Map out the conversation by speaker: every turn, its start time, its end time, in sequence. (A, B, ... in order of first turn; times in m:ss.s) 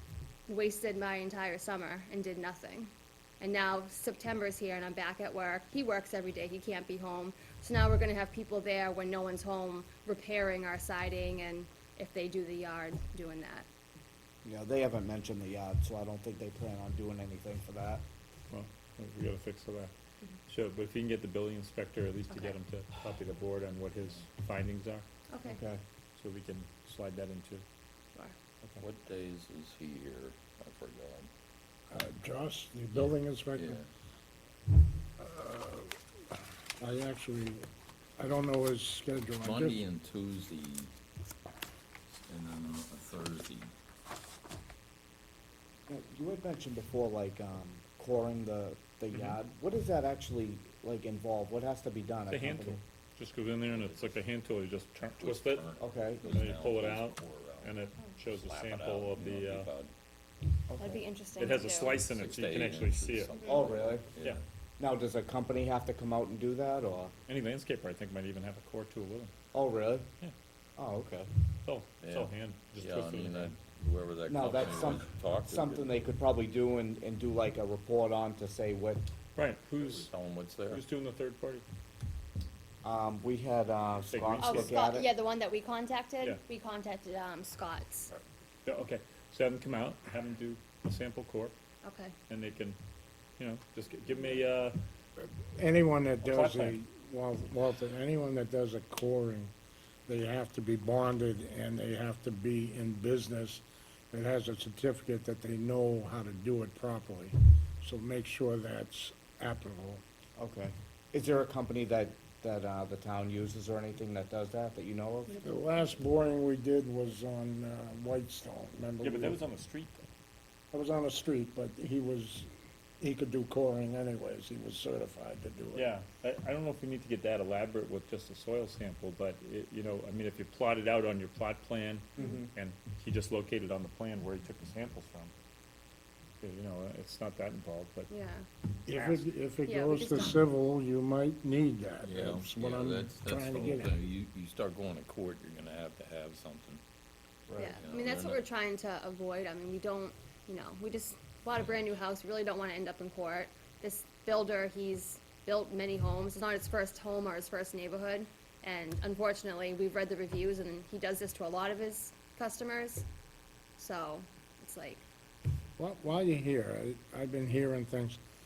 0:00.5-0:13.7 A
0:14.4-0:18.0 B
0:18.5-0:19.9 C
0:20.5-0:25.1 C
0:22.3-0:22.6 A
0:25.3-0:25.6 A
0:25.4-0:25.8 B
0:26.2-0:27.6 C
0:28.8-0:31.3 D
0:31.9-0:33.8 E
0:32.9-0:33.9 D
0:35.2-0:36.0 E
0:36.8-0:37.6 E
0:38.2-0:39.8 E
0:39.4-0:40.9 D
0:42.3-0:43.7 D
0:45.9-0:52.8 B
0:52.3-0:55.6 C
0:53.6-0:54.2 D
0:55.2-0:59.9 D
0:55.8-0:56.3 B
0:56.3-0:59.7 C
1:00.7-1:01.0 B
1:00.8-1:02.1 A
1:01.4-1:03.3 C
1:01.5-1:04.4 D
1:03.4-1:04.1 B
1:04.8-1:07.1 B
1:07.3-1:09.3 C
1:09.5-1:10.1 B
1:10.8-1:11.1 B
1:11.0-1:11.3 D
1:11.6-1:13.6 C
1:12.0-1:16.1 D
1:14.3-1:19.1 B
1:19.4-1:20.1 C
1:19.8-1:20.8 D
1:20.7-1:21.6 C
1:22.8-1:25.1 B
1:24.1-1:24.7 C
1:24.4-1:28.1 A
1:28.7-1:31.5 C
1:31.8-1:32.2 A
1:32.3-1:32.8 C
1:33.4-1:34.8 C
1:35.2-1:39.5 E
1:36.2-1:36.8 C
1:40.1-1:50.0 E
1:50.4-1:55.4 B
1:55.4-1:59.4 E
1:59.0-2:00.1 C
2:00.7-2:02.5 E
2:03.0-2:05.9 E
2:05.7-2:15.3 C
2:12.2-2:12.5 B
2:16.4-2:18.1 C
2:18.1-2:18.5 A
2:18.9-2:23.9 E
2:18.9-2:19.3 C
2:19.7-2:20.4 A
2:22.0-2:26.8 D
2:27.5-2:27.8 B
2:27.6-2:43.1 A
2:27.7-2:28.5 D
2:43.8-2:45.1 A
2:45.8-2:48.2 E